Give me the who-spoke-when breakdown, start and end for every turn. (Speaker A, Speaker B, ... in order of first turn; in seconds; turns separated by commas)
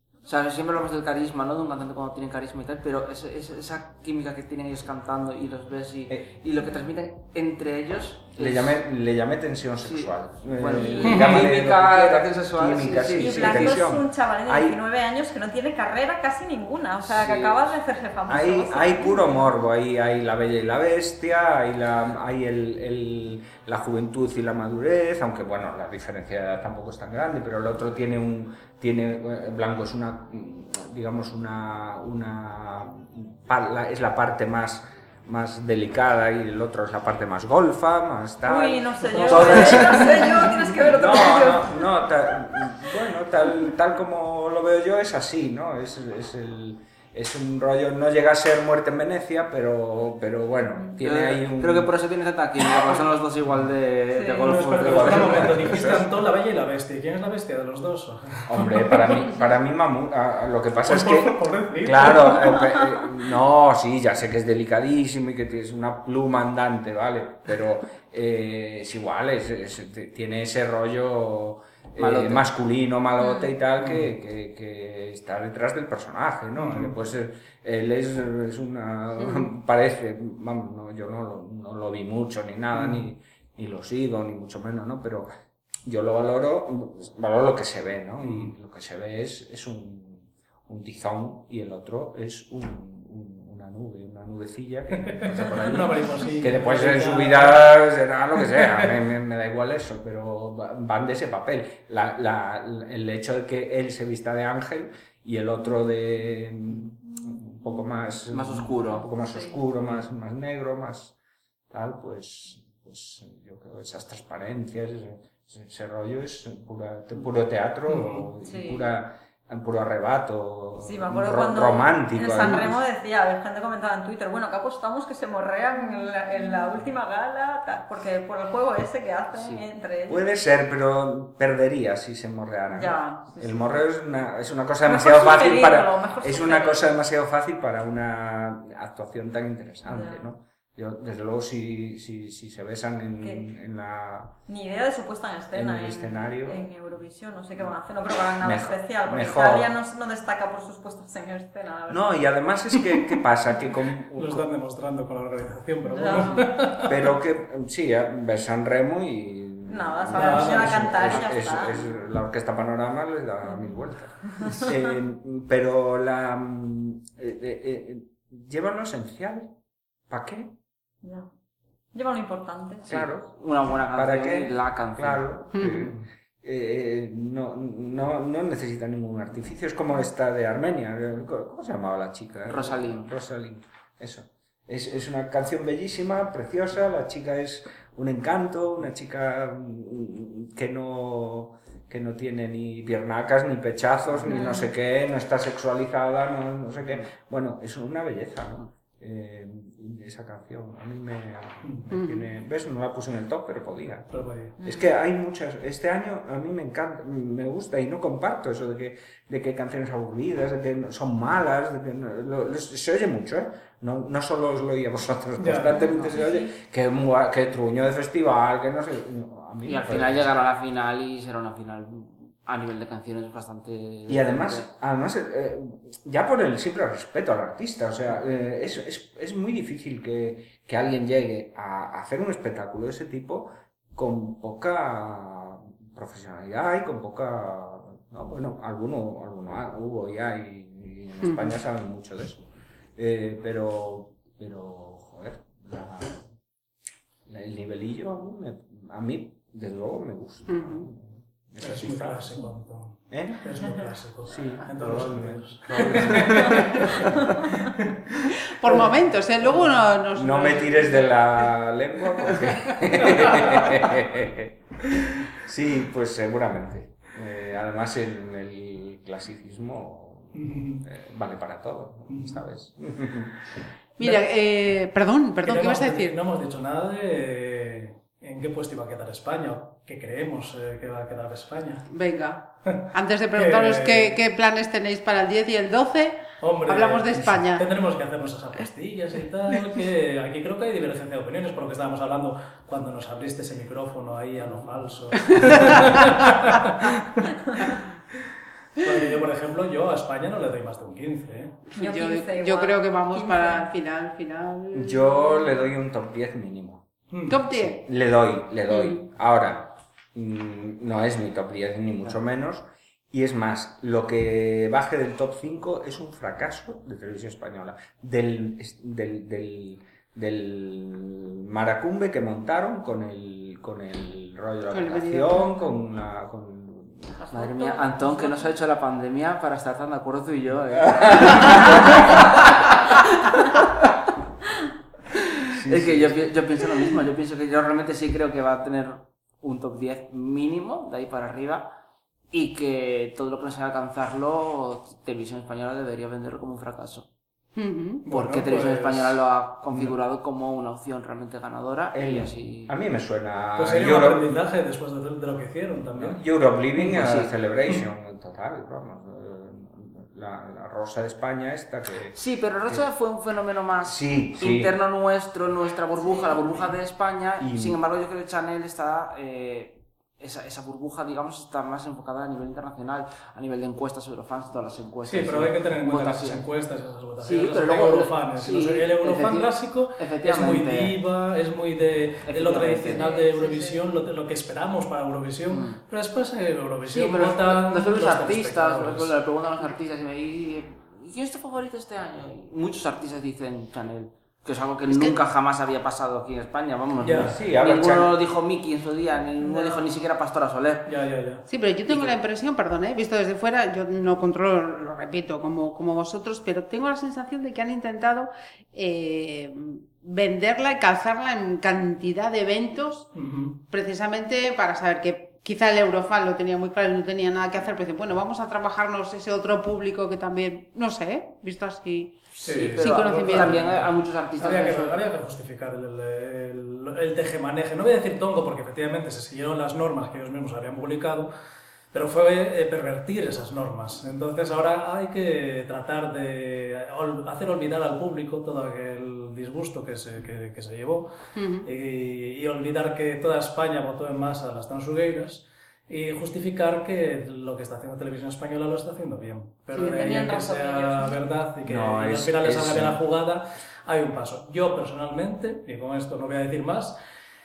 Speaker A: 0.2-8.8, Speaker B: 8.3-14.8, Speaker A: 9.8-13.8, Speaker C: 11.0-11.4, Speaker D: 13.2-19.5, Speaker B: 18.3-51.9, Speaker D: 38.4-41.7, Speaker C: 39.1-39.9, Speaker A: 51.0-55.9, Speaker D: 54.1-54.5, Speaker C: 54.4-59.0, Speaker B: 54.8-56.1, Speaker B: 58.5-85.3, Speaker C: 60.9-62.6, Speaker A: 72.0-72.5, Speaker D: 73.2-73.5, Speaker C: 73.8-74.1, Speaker C: 76.5-77.0, Speaker E: 79.2-79.5, Speaker C: 82.7-83.1, Speaker B: 85.8-111.1, Speaker C: 88.2-88.5, Speaker C: 95.0-97.8, Speaker A: 108.3-109.0, Speaker D: 109.3-109.6, Speaker B: 111.7-122.8, Speaker C: 117.9-118.2, Speaker D: 118.4-118.9, Speaker D: 120.8-130.2, Speaker A: 129.3-129.7, Speaker B: 130.1-144.3, Speaker D: 132.7-133.7, Speaker D: 134.8-136.8, Speaker D: 139.9-140.2, Speaker D: 143.2-143.4, Speaker D: 144.5-152.2, Speaker B: 145.5-146.6, Speaker B: 148.4-149.7, Speaker B: 151.9-154.4, Speaker C: 154.1-156.9, Speaker D: 155.8-156.6, Speaker B: 156.8-169.5, Speaker D: 159.7-161.9, Speaker C: 160.1-160.9, Speaker D: 163.4-163.8, Speaker D: 164.3-164.8, Speaker B: 170.1-170.5, Speaker D: 171.0-171.3, Speaker D: 171.9-173.0, Speaker B: 172.8-173.4, Speaker A: 172.9-175.3, Speaker B: 173.9-204.1, Speaker E: 175.5-175.9, Speaker A: 182.5-183.1, Speaker D: 194.2-194.7, Speaker E: 201.9-202.3, Speaker C: 204.1-204.5, Speaker D: 204.6-204.9, Speaker B: 204.6-220.3, Speaker C: 215.4-215.8, Speaker D: 215.8-216.5, Speaker A: 219.7-224.7, Speaker B: 224.1-242.4, Speaker E: 241.2-241.6, Speaker B: 242.9-246.2, Speaker B: 247.3-252.4, Speaker E: 250.5-250.9, Speaker C: 251.6-258.9, Speaker B: 253.1-253.4, Speaker B: 254.3-257.3, Speaker E: 258.4-261.1, Speaker C: 259.4-259.9, Speaker B: 260.1-273.4, Speaker C: 270.3-270.8, Speaker C: 272.1-272.4, Speaker E: 274.0-276.2, Speaker C: 275.4-281.9, Speaker E: 281.9-287.7, Speaker C: 282.7-284.2, Speaker C: 286.4-297.6, Speaker E: 295.1-296.3, Speaker D: 297.5-297.7, Speaker C: 298.8-301.6, Speaker E: 301.7-305.7, Speaker D: 301.8-303.7, Speaker B: 304.7-306.8, Speaker C: 307.1-307.4, Speaker E: 307.3-307.8, Speaker B: 307.5-327.1, Speaker E: 308.7-309.0, Speaker E: 324.7-325.7, Speaker D: 327.1-328.6, Speaker A: 327.3-332.8, Speaker B: 330.8-332.0, Speaker A: 335.2-341.7, Speaker B: 335.5-336.3, Speaker A: 342.3-347.1, Speaker E: 347.6-348.0, Speaker C: 348.0-349.2, Speaker A: 348.1-352.7, Speaker B: 351.9-354.4, Speaker C: 353.6-356.2, Speaker B: 356.0-362.8, Speaker A: 356.8-357.3, Speaker A: 362.1-376.4, Speaker B: 363.8-364.8, Speaker D: 366.0-366.5, Speaker B: 367.4-367.8, Speaker C: 375.0-389.1, Speaker A: 377.2-380.9, Speaker A: 382.2-383.1, Speaker D: 382.9-383.8, Speaker A: 385.5-385.8, Speaker A: 386.9-400.9, Speaker E: 394.9-395.2, Speaker C: 397.0-397.3, Speaker B: 397.2-398.1, Speaker C: 400.9-401.4, Speaker E: 401.5-413.1, Speaker A: 401.9-402.1, Speaker C: 413.1-413.6, Speaker E: 413.7-423.6, Speaker A: 422.4-425.0, Speaker C: 422.4-431.3, Speaker C: 431.9-441.1, Speaker E: 441.4-441.7, Speaker C: 441.6-457.0, Speaker E: 449.7-450.1, Speaker D: 449.8-451.2, Speaker B: 451.6-453.0